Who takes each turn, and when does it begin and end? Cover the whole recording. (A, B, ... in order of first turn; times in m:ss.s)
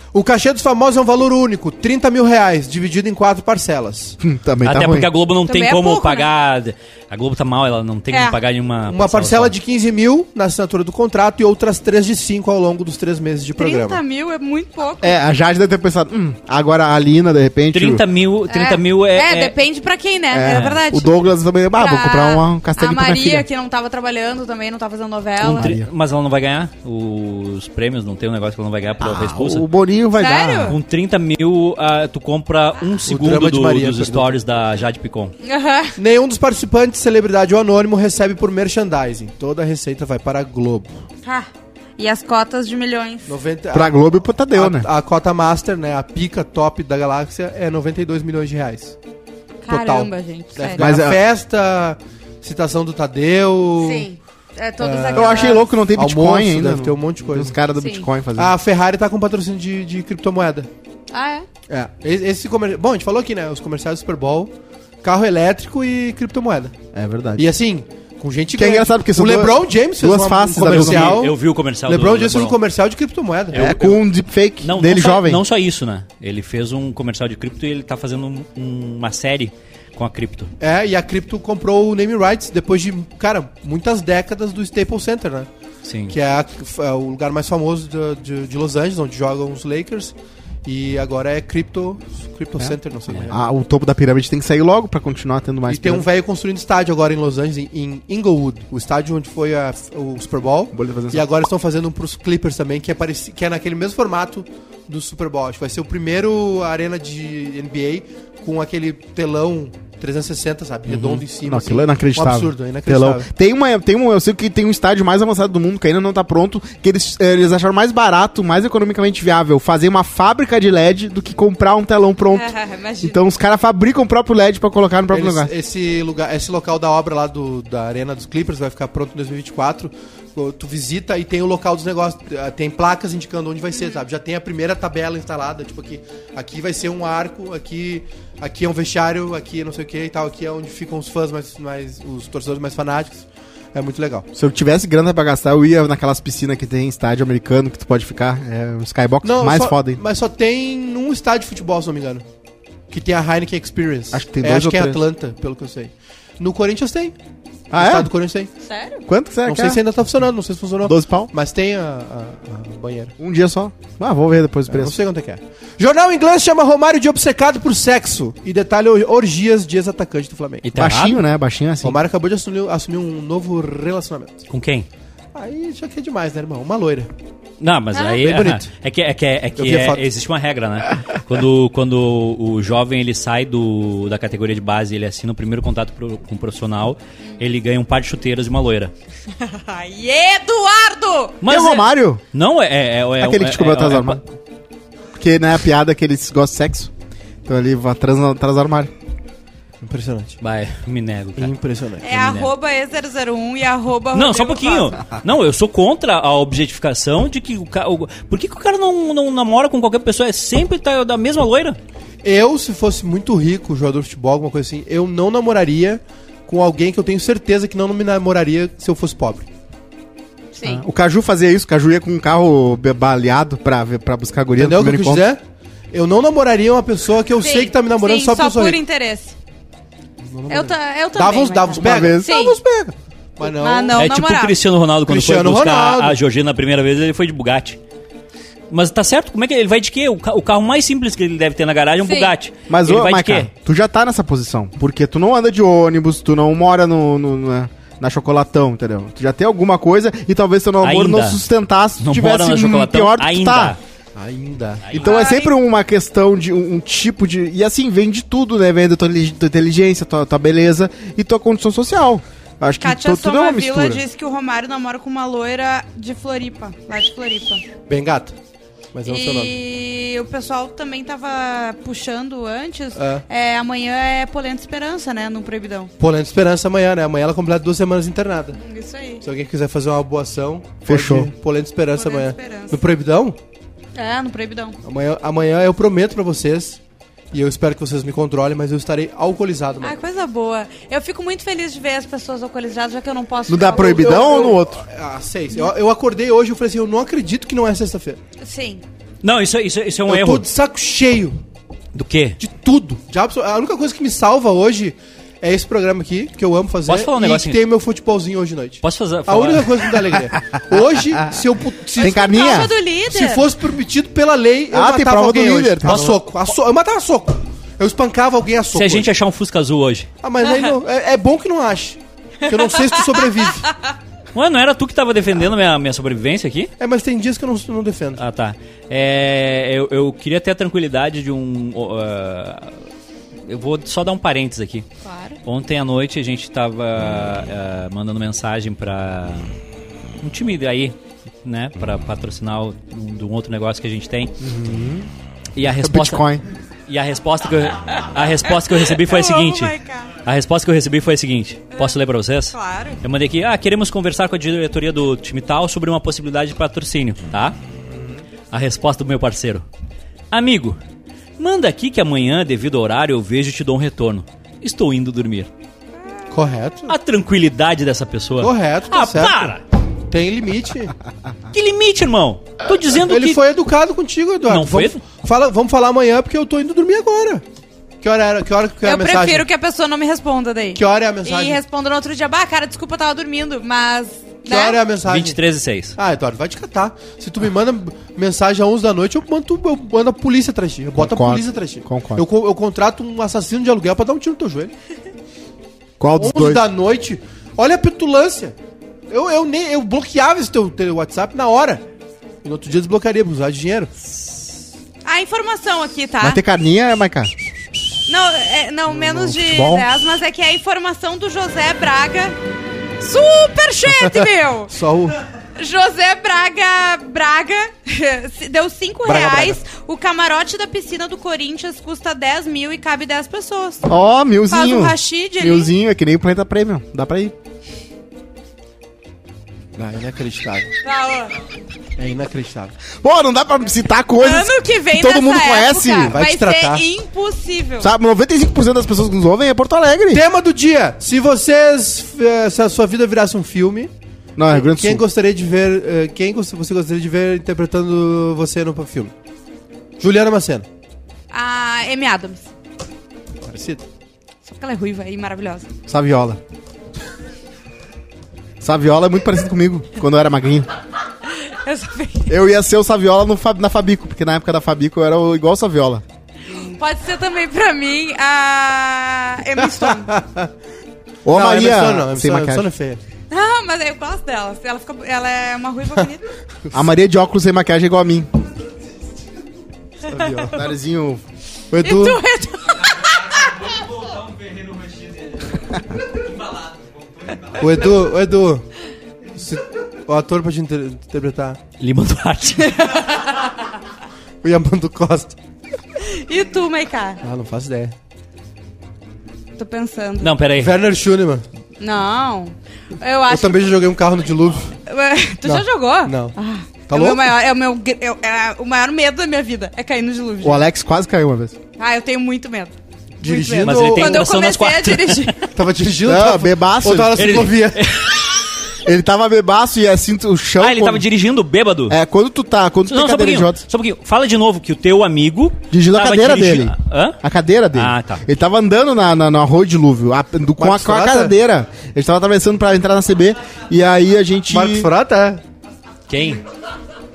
0:00.1-0:04.2 A
0:04.2-0:05.1 B
0:04.6-0:09.5 C
0:05.5-0:06.3 D
0:08.1-0:08.4 D
0:08.9-0:14.0 A
0:13.6-0:15.1 D
0:15.0-0:18.0 B
0:17.7-0:19.5 C
0:18.5-0:25.7 D
0:20.3-0:23.5 B
0:20.5-0:20.8 C
0:25.4-0:29.6 C
0:25.6-0:25.9 B
0:29.0-0:30.8 B
0:30.1-0:30.8 D
0:30.7-0:35.3 C
0:33.1-0:34.4 A
0:35.4-0:35.9 D
0:36.0-0:40.9 A
0:41.2-0:43.3 D
0:43.2-0:49.0 A
0:43.7-0:44.9 B
0:49.6-0:50.8 D
0:49.7-0:54.1 A
0:50.8-0:51.2 B
0:53.8-0:55.7 D
0:54.8-0:57.6 A
0:55.1-0:58.5 B
0:57.8-0:58.1 D
0:58.4-1:00.7 A
1:01.1-1:01.4 D
1:01.7-1:06.7 A
1:06.9-1:07.4 B
1:07.4-1:13.6 A
1:08.5-1:11.2 B
1:10.6-1:12.6 C
1:13.5-1:14.0 C
1:13.5-1:15.4 B
1:14.6-1:20.5 C
1:20.6-1:25.5 A
1:25.8-1:26.1 C
1:26.1-1:30.1 A
1:30.6-1:33.4 A
1:33.3-1:36.0 B
1:35.7-1:53.3 A
1:40.7-1:41.2 B
1:50.9-2:02.5 B
2:02.3-2:03.2 D
2:03.0-2:05.5 B
2:05.1-2:24.3 A
2:24.3-2:30.0 B
2:29.2-2:32.2 A
2:32.9-2:37.1 A
2:34.1-2:35.0 B
2:37.7-2:38.1 B
2:37.7-2:38.5 A
2:38.6-2:39.0 D
2:39.1-2:39.8 B
2:39.4-2:43.1 A
2:40.8-2:41.3 B
2:43.2-2:44.9 B
2:44.7-2:50.6 A
2:50.6-2:51.2 C
2:50.8-2:52.0 B
2:51.8-2:54.4 A
2:54.5-2:54.9 C
2:55.3-2:57.1 A
2:57.6-3:08.9 C
2:57.9-2:58.2 D
2:58.2-2:58.7 A
2:59.6-3:00.0 A
3:09.4-3:11.4 D
3:11.4-3:14.2 C
3:11.5-3:12.2 B
3:13.2-3:14.2 B
3:15.2-3:16.9 B
3:17.4-3:18.9 B
3:19.8-3:20.4 A
3:20.4-3:21.5 C
3:21.4-3:22.1 A
3:22.0-3:25.0 D
3:22.0-3:22.5 C
3:24.1-3:31.8 C
3:32.2-3:39.5 A
3:40.5-3:40.8 D
3:40.6-3:45.3 B
3:44.6-3:48.8 A
3:47.4-3:49.3 D
3:50.2-3:54.0 A
3:50.5-3:52.6 D
3:51.8-3:52.3 B
3:53.4-3:54.6 D
3:54.0-3:57.8 C
3:55.1-3:56.2 A
3:58.7-4:03.5 C
4:02.0-4:02.3 D
4:02.7-4:13.8 B
4:10.8-4:11.4 C
4:12.0-4:13.8 C
4:14.2-4:14.9 A
4:14.8-4:15.2 C
4:14.9-4:24.0 B
4:15.0-4:15.5 D
4:22.8-4:27.6 D
4:27.9-4:28.3 A
4:28.9-4:29.5 A
4:29.0-4:35.9 D
4:33.0-4:33.2 A
4:36.0-4:38.6 A
4:38.6-4:39.2 D
4:39.2-4:43.4 A
4:40.8-4:41.3 B
4:42.0-4:42.8 D
4:43.9-4:44.8 D
4:44.8-4:46.8 A
4:47.3-4:50.0 A
4:49.8-4:54.4 D
4:53.5-4:54.8 B
4:53.7-4:58.2 A
4:58.4-4:58.8 D
4:59.2-5:00.4 C
5:00.1-5:01.4 A
5:01.9-5:02.4 C
5:02.4-5:19.1 A
5:06.8-5:07.6 C
5:08.8-5:09.9 C
5:12.0-5:12.7 B
5:12.0-5:13.4 D
5:14.7-5:16.2 B
5:18.7-5:20.1 C
5:20.2-5:23.7 A
5:24.3-5:26.7 C
5:26.8-5:28.2 A
5:28.2-5:32.8 C
5:33.5-5:34.8 C
5:35.0-5:35.4 D
5:35.4-5:39.4 C
5:40.2-5:44.3 C
5:44.4-5:45.1 B
5:45.6-5:46.3 C
5:45.8-5:46.4 B
5:46.9-5:57.6 C
5:48.9-5:50.1 D
5:52.5-5:53.0 D
5:58.5-5:59.6 C
6:00.3-6:00.8 C
6:01.4-6:05.5 C
6:06.3-6:06.9 A
6:06.9-6:09.6 C
6:08.4-6:09.6 A
6:10.1-6:10.9 A
6:11.5-6:13.4 C
6:13.0-6:17.4 A
6:14.4-6:15.0 C
6:18.0-6:19.4 A
6:18.8-6:24.8 D
6:20.7-6:21.6 A
6:24.4-6:25.4 A
6:25.0-6:26.0 C
6:26.0-6:34.7 A
6:30.9-6:32.2 B
6:36.0-6:36.6 B
6:36.2-6:38.5 A
6:39.1-6:41.8 A
6:42.4-6:43.9 A
6:45.0-6:46.4 D
6:46.2-6:47.3 B
6:48.1-6:52.4 D
6:48.9-6:49.8 B
6:53.0-6:54.7 D
6:54.2-6:55.2 A
6:55.6-7:03.8 D
6:59.0-6:59.6 A
7:03.8-7:07.3 B
7:04.5-7:05.7 D
7:09.8-7:10.7 A
7:10.8-7:11.3 D
7:12.0-7:12.7 A
7:13.0-7:16.2 B
7:14.2-7:17.9 D
7:16.0-7:16.8 A
7:17.8-7:20.2 B
7:20.1-7:23.9 A
7:24.4-7:25.0 B
7:24.5-7:29.1 A
7:30.0-7:30.6 A
7:31.3-7:32.5 D
7:33.4-7:33.8 A
7:34.4-7:35.7 D
7:35.9-7:36.4 B
7:38.6-7:40.7 B
7:41.4-7:42.3 D
7:42.3-7:46.0 B
7:46.5-7:50.1 D
7:49.7-7:50.5 A
7:51.2-7:52.7 B
7:51.3-7:53.0 A
7:53.3-7:56.2 D
7:56.7-7:58.3 B
8:00.1-8:00.6 A
8:00.1-8:01.2 B
8:01.7-8:02.2 A
8:01.8-8:03.8 D
8:07.5-8:08.6 A
8:09.3-8:11.6 A
8:11.8-8:12.9 C
8:12.7-8:13.3 D
8:14.4-8:15.4 A
8:16.0-8:17.2 D
8:17.2-8:17.9 A
8:19.6-8:20.3 D
8:20.2-8:20.8 C
8:20.6-8:21.4 A
8:21.8-8:23.7 D
8:23.3-8:24.7 A
8:24.9-8:30.6 D
8:25.4-8:26.4 A
8:26.9-8:27.3 A
8:30.4-8:31.6 B
8:31.8-8:35.4 D
8:33.2-8:34.3 A
8:33.6-8:35.4 C
8:35.5-8:37.8 A
8:36.0-8:37.4 B
8:37.1-8:38.2 C
8:38.8-8:41.0 B
8:40.6-8:42.0 C
8:41.9-8:43.6 B
8:42.9-8:47.2 C
8:45.7-8:54.9 B
8:47.7-8:48.2 C
8:50.6-8:51.3 A
8:54.5-8:55.4 A
8:56.1-8:56.4 C